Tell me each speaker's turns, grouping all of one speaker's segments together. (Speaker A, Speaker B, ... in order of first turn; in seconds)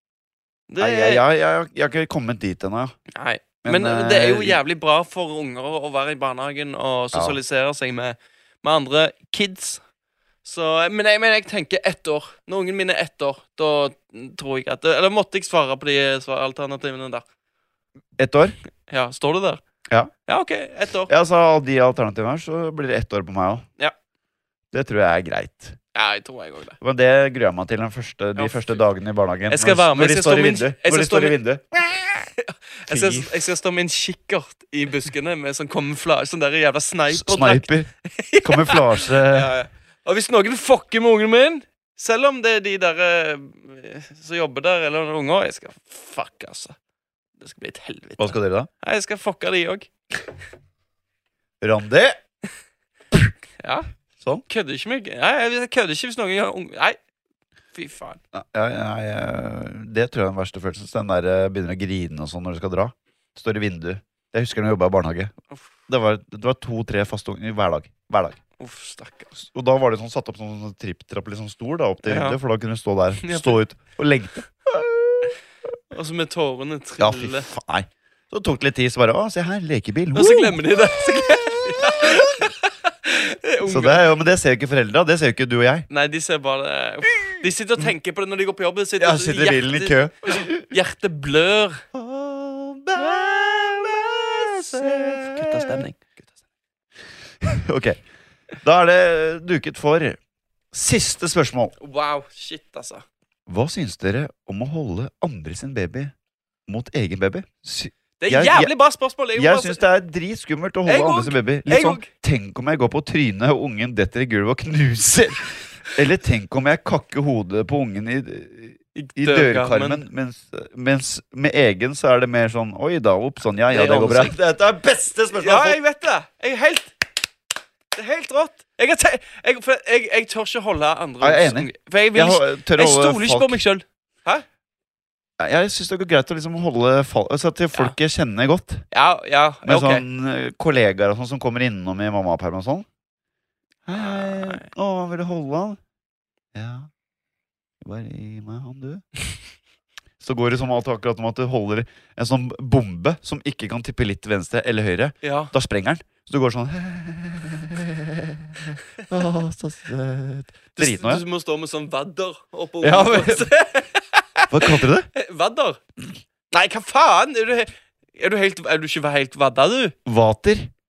Speaker A: 0.7-1.2, 3.1-9.8, 10.4-17.2, 18.9-19.6, 20.3-21.1, 25.9-26.8, 28.4-28.8, 29.5-31.4, 32.4-46.8, 47.4-49.9, 53.6-53.9, 54.5-57.0, 57.7-58.2, 68.6-69.3, 72.0-72.4, 73.2-73.6, 75.9-77.5, 80.1-84.0, 85.9-91.8, 94.1-96.0, 101.8-103.0, 108.2-109.8, 110.8-112.1, 118.9-120.0, 123.7-124.3, 125.3-127.1, 127.9-134.4, 138.9-140.0, 143.9-144.7, 155.2-155.5, 160.7-165.8, 166.5-169.9
Speaker B: 0.8-3.0, 3.6-4.6, 18.2-18.6, 21.1-23.6, 24.7-25.8, 26.8-32.3, 32.9-33.4, 37.1-37.9, 38.4-39.5, 48.2-48.7, 51.6-52.2, 58.3-65.3, 65.9-68.4, 69.3-75.3, 77.0-80.6, 81.2-82.4, 83.7-85.9, 87.1-87.8, 89.0-90.7, 91.9-95.8, 97.4-98.0, 98.6-100.2, 100.7-101.7, 103.5-106.1, 106.7-108.7, 109.3-125.8, 131.2-133.6, 135.4-138.8, 139.6-142.8, 143.8-145.8, 146.5-146.9, 147.8-149.0, 150.2-161.2, 162.8-163.5, 164.5-165.1, 170.1-170.7